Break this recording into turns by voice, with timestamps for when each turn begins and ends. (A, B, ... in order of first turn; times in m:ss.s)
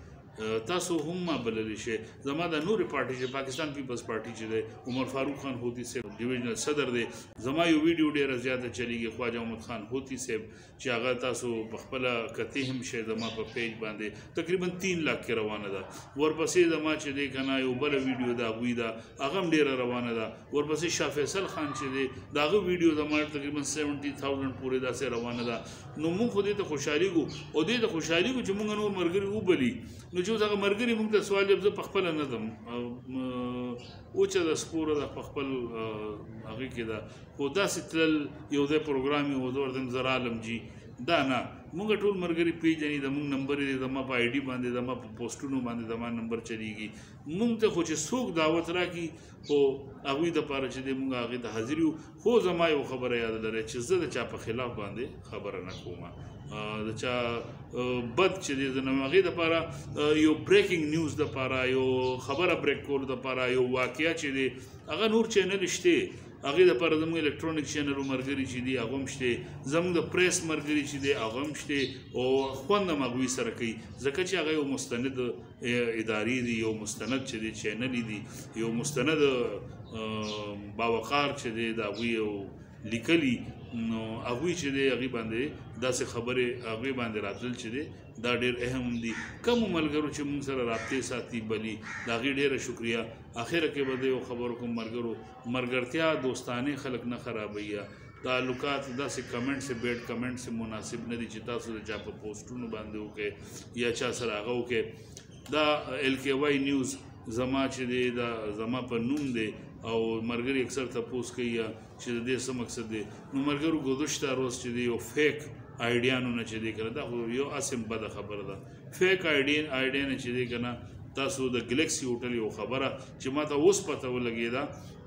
0:00.4-1:44.9 A
1:45.5-2:04.7 A